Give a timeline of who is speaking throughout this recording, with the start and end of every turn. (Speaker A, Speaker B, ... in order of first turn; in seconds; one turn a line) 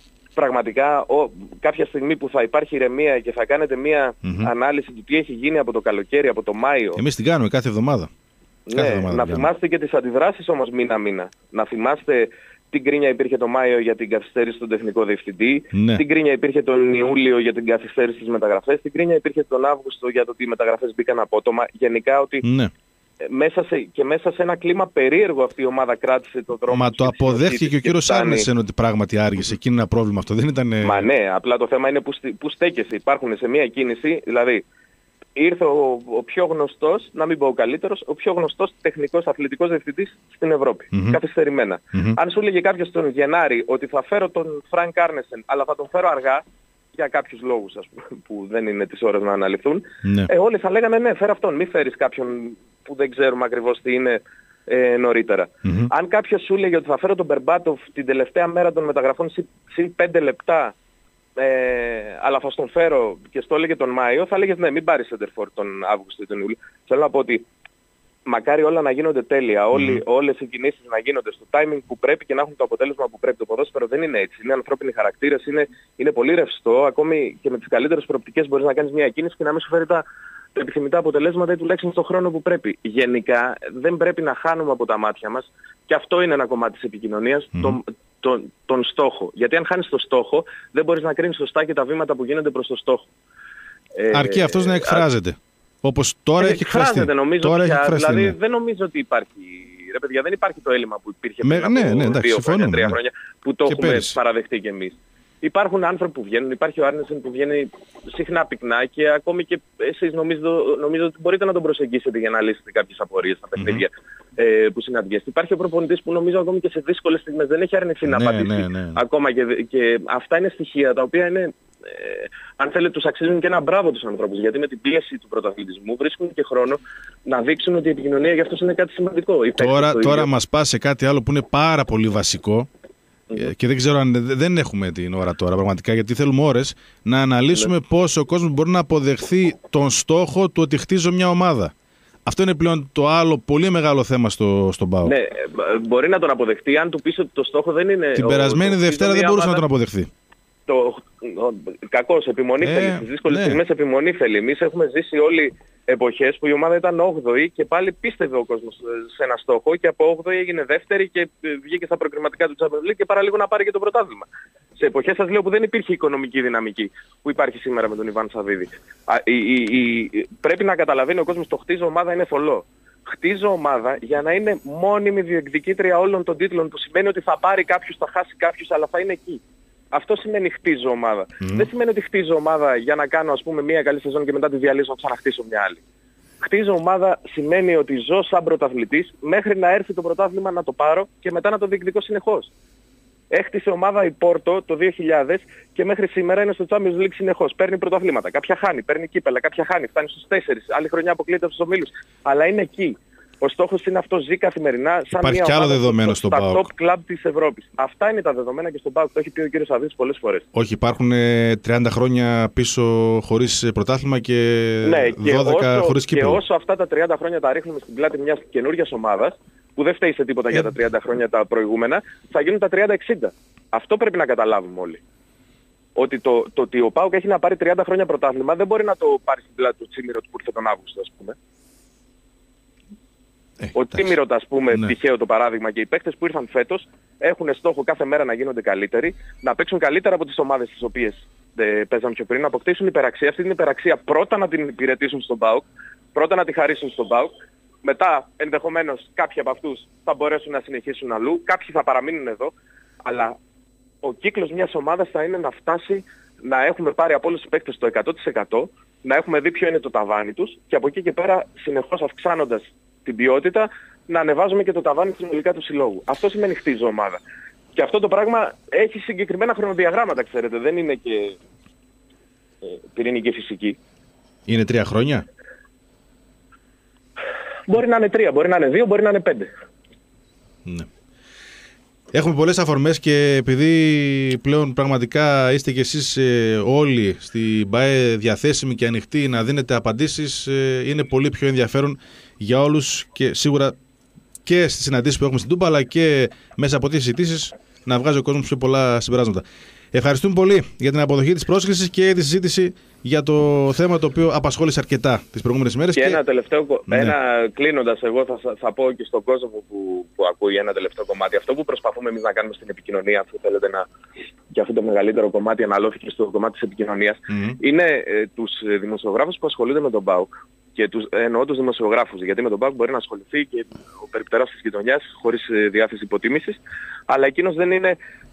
Speaker A: 0.4-7.0
Speaker B: 4.2-4.5
Speaker B: 7.0-8.1
Speaker A: 8.7-22.4
Speaker B: 8.8-9.5
Speaker B: 15.7-16.0
Speaker B: 22.4-22.7
Speaker A: 23.2-28.5
Speaker B: 26.7-31.1
Speaker A: 30.8-34.6
Speaker A: 35.4-46.4
Speaker B: 40.9-41.2
Speaker A: 46.9-60.8
Speaker A: 61.4-67.5
Speaker A: 68.3-93.1
Speaker B: 69.7-70.0
Speaker A: 94.0-95.0
Speaker B: 94.1-98.3
Speaker A: 96.4-130.3
Speaker B: 101.4-103.0
Speaker B: 103.7-104.2
Speaker B: 113.6-113.8
Speaker B: 118.1-119.0
Speaker B: 129.6-132.7
Speaker B: 133.4-141.7
Speaker B: 142.3-145.1
Speaker A: 145.0-149.6
Speaker B: 148.2-150.1
Speaker A: 150.7-179.4
Speaker B: 152.6-153.6
Speaker A: 179.9-185.8
Speaker B: 181.4-181.7
Speaker A: 186.4-192.5
Speaker A: 193.3-210.4
Speaker B: 205.1-206.7
Speaker B: 210.5-216.4
Speaker A: 214.8-225.0
Speaker A: 226.0-231.4
Speaker B: 233.6-234.1
Speaker A: 233.7-247.3
Speaker A: 247.8-252.5
Speaker A: 253.0-253.4
Speaker A: 254.0-267.2
Speaker A: 267.8-271.4
Speaker A: 272.6-273.8
Speaker B: 274.5-275.2
Speaker A: 277.7-279.5
Speaker B: 282.1-293.8
Speaker B: 294.4-306.2
Speaker A: 305.9-313.9
Speaker B: 306.9-307.1
Speaker A: 314.5-328.0
Speaker B: 317.3-317.6